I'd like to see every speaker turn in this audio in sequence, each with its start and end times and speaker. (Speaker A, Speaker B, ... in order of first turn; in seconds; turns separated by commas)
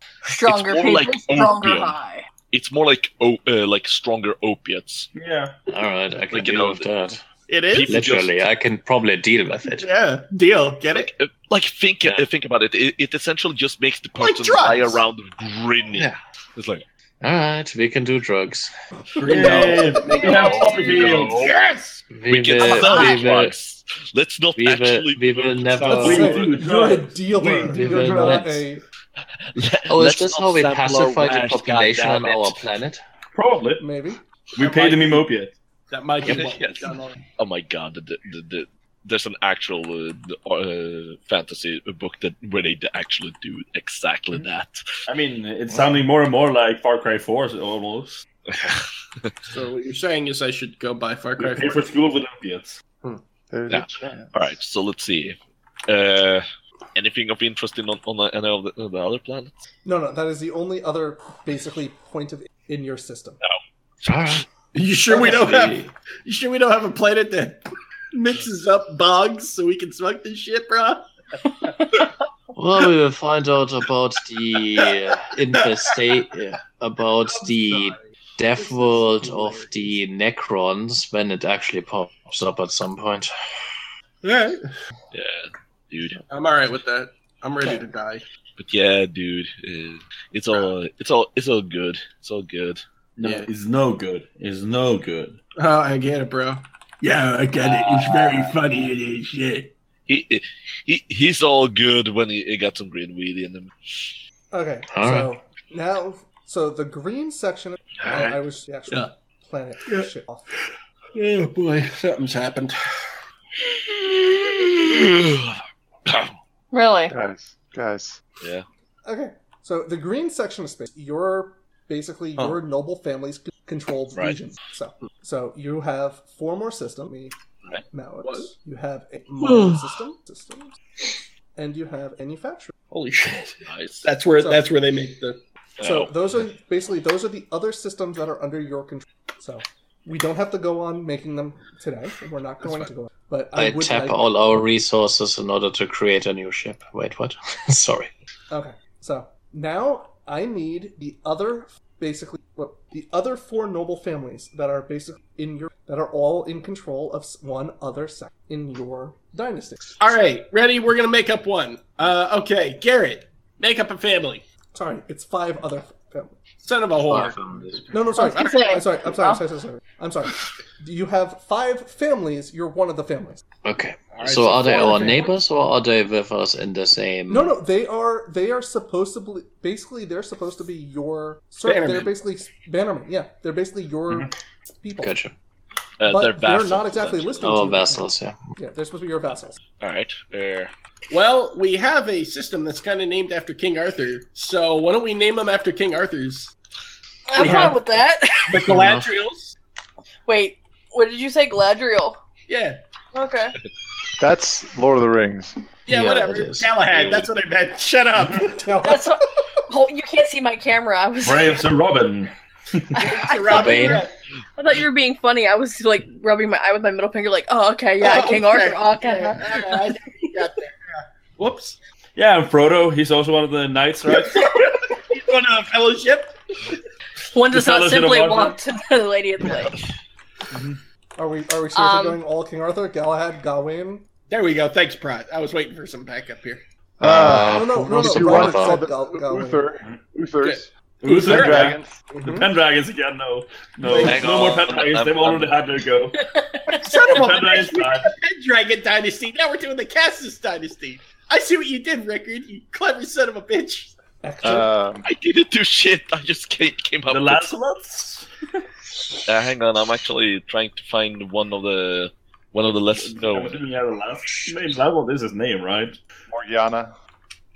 Speaker A: 0.2-2.2, Speaker B: 0.3-2.0, Speaker B: 2.5-5.1, Speaker C: 5.1-5.5, Speaker D: 5.7-7.2, Speaker B: 6.3-6.9, Speaker E: 7.5-8.0, Speaker B: 7.7-8.3, Speaker D: 7.9-9.9, Speaker E: 9.7-11.1, Speaker B: 10.9-16.8, Speaker E: 14.2-15.0, Speaker D: 15.9-16.2, Speaker D: 17.2-18.7, Speaker C: 19.2-21.5, Speaker E: 19.2-22.0, Speaker D: 19.3-19.8, Speaker A: 20.3-20.9, Speaker B: 20.7-21.6, Speaker D: 22.1-23.6, Speaker B: 22.3-26.3, Speaker A: 22.6-23.2, Speaker D: 24.6-26.6, Speaker C: 25.8-28.4, Speaker F: 25.9-28.8, Speaker D: 27.6-28.7, Speaker B: 29.5-32.6, Speaker D: 29.9-33.0, Speaker C: 33.4-33.9, Speaker F: 33.8-34.2, Speaker C: 34.6-35.5, Speaker E: 34.6-35.3, Speaker E: 35.9-37.2, Speaker B: 36.3-44.9, Speaker C: 45.1-48.2, Speaker B: 48.5-49.3, Speaker E: 49.5-51.9, Speaker C: 51.4-52.8, Speaker G: 53.5-54.3, Speaker B: 53.7-59.5, Speaker F: 59.9-63.4, Speaker D: 64.0-64.5, Speaker E: 64.7-67.6, Speaker D: 65.1-65.9, Speaker E: 68.1-71.1, Speaker D: 72.5-83.3, Speaker E: 75.5-76.0, Speaker E: 77.3-80.0, Speaker E: 84.2-84.7, Speaker B: 85.1-86.2, Speaker E: 86.3-88.2, Speaker B: 88.6-92.8, Speaker C: 93.2-95.4, Speaker E: 93.2-93.5, Speaker E: 95.6-99.7, Speaker B: 100.1-104.1, Speaker F: 104.5-110.5, Speaker D: 104.9-105.3, Speaker B: 108.0-108.4, Speaker E: 109.8-110.6, Speaker E: 111.1-113.1, Speaker B: 113.7-116.4, Speaker A: 116.7-117.1, Speaker G: 117.1-118.2, Speaker F: 119.0-127.3, Speaker F: 127.9-130.8, Speaker E: 128.2-128.5, Speaker F: 131.6-132.7, Speaker E: 132.9-135.4, Speaker B: 133.7-134.1, Speaker F: 134.4-134.8, Speaker B: 135.8-136.1, Speaker F: 135.8-144.2, Speaker D: 143.6-148.1, Speaker F: 148.5-160.0, Speaker E: 160.0-164.4, Speaker F: 164.7-166.4, Speaker E: 166.6-167.4, Speaker D: 166.9-167.9, Speaker F: 167.9-173.4, Speaker A: 168.2-169.4, Speaker D: 173.6-177.6, Speaker E: 174.1-175.3, Speaker F: 177.3-185.2, Speaker E: 181.6-182.1, Speaker D: 185.0-185.3, Speaker B: 186.0-187.7, Speaker F: 186.1-189.6, Speaker D: 187.4-188.4, Speaker B: 189.8-190.7, Speaker E: 191.1-196.5, Speaker A: 197.3-198.6, Speaker E: 197.4-197.8, Speaker E: 198.5-199.6, Speaker D: 198.6-199.1, Speaker A: 200.3-202.2, Speaker E: 202.5-202.8, Speaker A: 203.1-203.6, Speaker G: 204.2-205.6, Speaker E: 205.9-208.8, Speaker D: 205.9-206.7, Speaker B: 206.9-207.3, Speaker F: 208.6-209.2, Speaker A: 208.8-211.7, Speaker C: 211.2-213.0, Speaker A: 212.9-214.1, Speaker E: 213.0-214.1, Speaker D: 213.5-214.1, Speaker A: 214.6-219.7, Speaker E: 218.0-221.8, Speaker C: 222.2-224.5, Speaker E: 224.1-226.7, Speaker A: 227.3-229.8, Speaker C: 227.5-228.6, Speaker C: 230.5-230.8, Speaker F: 231.2-234.1, Speaker A: 231.8-232.2, Speaker E: 234.3-236.6, Speaker G: 237.0-242.0, Speaker D: 237.0-238.8, Speaker F: 237.1-239.7, Speaker E: 240.4-242.4, Speaker C: 241.0-246.2, Speaker F: 242.3-242.5, Speaker E: 243.8-244.8, Speaker B: 244.0-245.6, Speaker A: 246.2-246.8, Speaker E: 246.7-253.9, Speaker C: 246.9-248.1, Speaker F: 254.2-254.7, Speaker G: 254.4-255.1, Speaker B: 255.1-257.6, Speaker C: 257.1-258.3, Speaker B: 259.2-263.6, Speaker C: 262.9-266.0, Speaker G: 266.3-266.9